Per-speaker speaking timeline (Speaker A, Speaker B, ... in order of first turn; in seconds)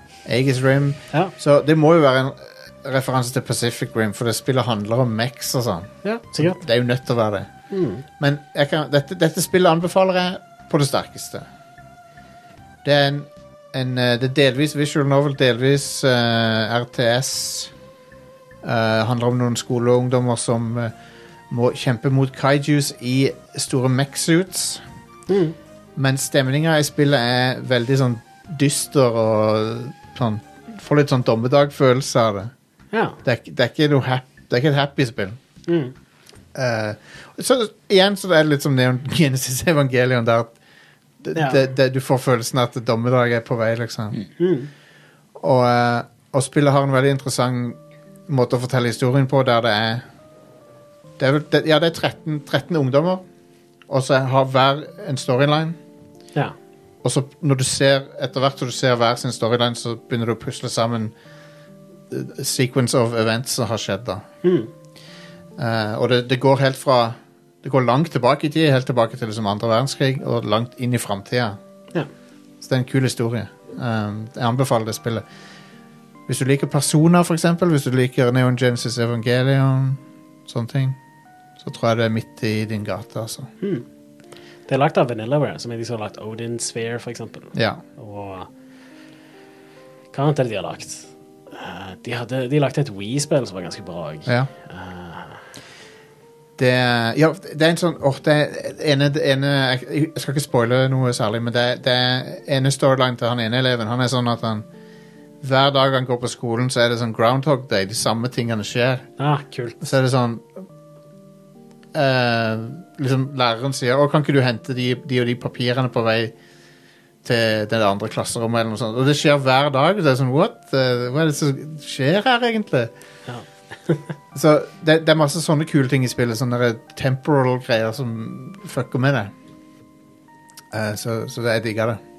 Speaker A: 0.3-7.5, 8.2-11.5, 12.8-17.7, 18.6-20.9, 21.5-24.8, 26.0-32.5, 33.2-35.4, 36.5-40.5, 41.2-44.2, 45.4-50.0, 51.2-53.2, 53.9-55.8, 57.0-61.1, 62.1-64.2, 65.6-71.6, 72.6-75.2, 76.3-81.0, 81.6-83.5, 87.5-87.8, 96.6-104.7, 105.4-109.1, 109.8-110.5, 111.9-116.3, 117.2-122.9, 124.3-129.3, 130.7-132.0
Speaker B: 6.0-6.6, 7.7-8.0, 25.3-25.6, 32.9-33.2, 35.7-35.9, 41.4-41.7, 44.4-44.7, 64.4-64.7, 84.7-88.5, 90.1-95.4, 109.2-109.8, 123.3-124.0